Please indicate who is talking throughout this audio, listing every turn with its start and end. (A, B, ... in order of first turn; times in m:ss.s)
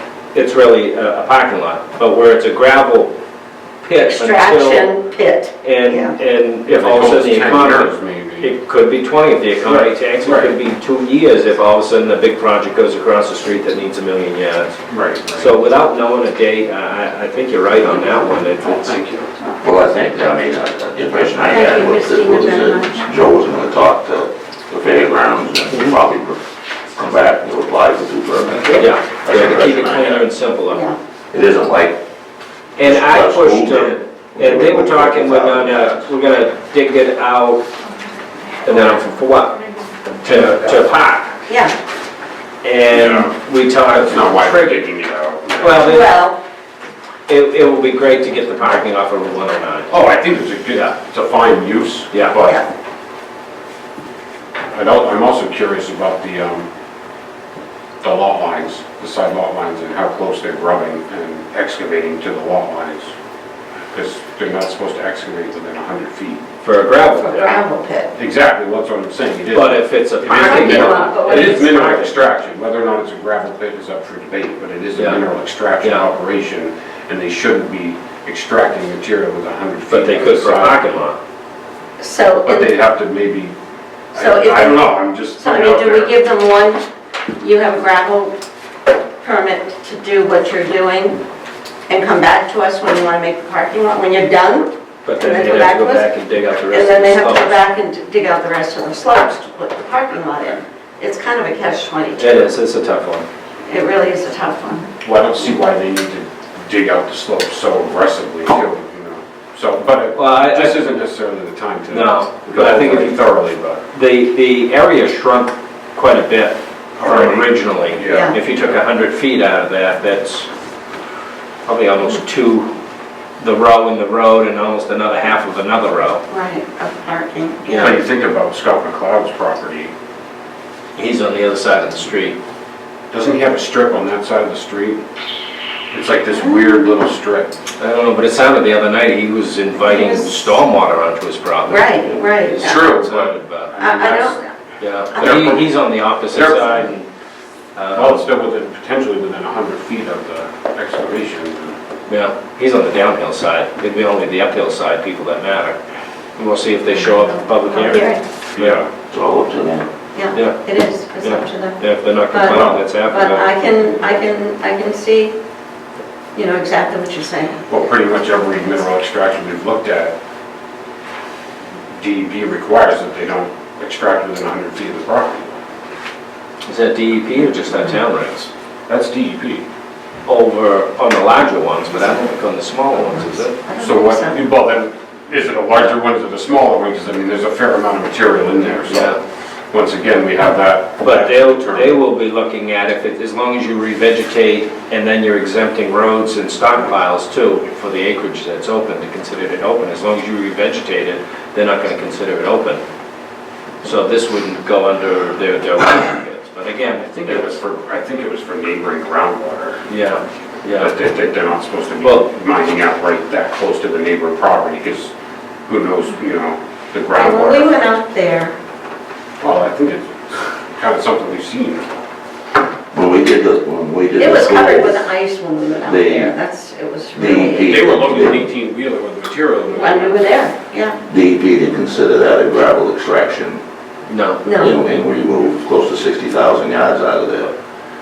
0:00.3-0:03.1 A
0:03.8-0:04.9 A
0:04.0-0:06.2 B
0:05.6-0:14.8 A
0:06.6-0:08.5 C
0:09.6-0:10.6 C
0:14.9-0:15.5 C
0:15.3-0:18.9 A
0:18.6-0:19.3 C
0:19.6-0:26.4 D
0:21.4-0:23.0 B
0:25.7-0:26.0 A
0:26.9-0:30.2 D
0:28.7-0:30.8 A
0:30.7-0:31.0 B
0:31.3-0:32.0 D
0:32.8-0:37.7 A
0:32.8-0:36.1 D
0:38.6-0:39.6 A
0:40.2-0:41.4 A
0:40.2-0:40.9 C
0:41.5-0:41.8 B
0:42.6-0:44.8 A
0:42.9-0:46.0 C
0:45.6-0:46.1 A
0:45.8-0:46.4 B
0:47.3-0:49.9 A
0:49.9-0:52.6 C
0:54.7-0:56.7 C
0:58.0-1:03.1 C
1:03.9-1:06.4 C
1:06.6-1:07.6 A
1:07.1-1:08.1 B
1:08.1-1:20.8 C
1:09.5-1:12.2 A
1:10.3-1:11.8 B
1:15.0-1:15.2 A
1:15.8-1:16.1 A
1:19.9-1:21.2 A
1:22.0-1:22.7 B
1:22.4-1:23.5 C
1:24.1-1:26.2 C
1:24.1-1:26.8 B
1:27.4-1:28.3 B
1:29.2-1:31.2 B
1:31.9-1:36.1 B
1:35.0-1:37.5 A
1:36.7-1:42.5 B
1:42.2-1:43.2 A
1:43.6-1:44.9 B
1:45.0-1:53.8 C
1:50.1-1:50.8 A
1:51.9-1:53.3 A
1:53.9-2:00.5 A
1:57.0-1:58.5 C
1:58.1-1:58.4 B
2:01.6-2:02.7 A
2:03.4-2:06.2 A
2:06.3-2:08.0 B
2:07.6-2:08.0 A
2:07.8-2:09.9 C
2:11.0-2:12.4 A
2:13.1-2:15.0 C
2:15.9-2:17.5 C
2:16.3-2:16.6 B
2:17.8-2:23.7 A
2:19.8-2:20.6 B
2:21.6-2:22.9 B
2:22.6-2:24.4 C
2:23.8-2:24.5 B
2:24.8-2:27.1 A
2:25.1-2:25.7 C
2:26.3-2:26.9 C
2:27.7-2:28.2 A
2:27.9-2:31.8 C
2:32.1-2:35.8 A
2:36.4-2:38.0 A
2:36.9-2:38.2 B
2:38.5-2:38.9 C
2:39.1-2:39.9 D
2:40.1-2:45.4 B
2:40.3-2:40.6 A
2:41.2-2:43.7 A
2:46.3-2:47.6 B
2:47.7-2:50.2 C
2:51.9-2:55.6 C
2:56.6-2:58.5 A
2:58.9-2:59.6 C
3:00.2-3:03.6 A
3:03.0-3:04.4 B
3:03.8-3:09.2 C
3:08.9-3:09.2 A
3:09.7-3:12.0 C
3:11.0-3:22.8 A
3:23.8-3:27.6 A
3:27.1-3:29.9 C
3:29.9-3:30.9 A
3:30.7-3:35.1 C
3:35.6-3:37.8 C
3:37.1-3:38.6 B
3:39.4-3:41.9 C
3:42.9-3:45.0 D
3:44.2-3:47.9 B
3:45.9-3:46.3 D
3:47.1-3:48.5 D
3:47.6-3:50.2 C
3:49.7-3:51.0 B
3:51.1-3:53.6 D
3:54.1-3:54.4 A
3:54.4-3:54.8 B
3:54.6-3:57.5 D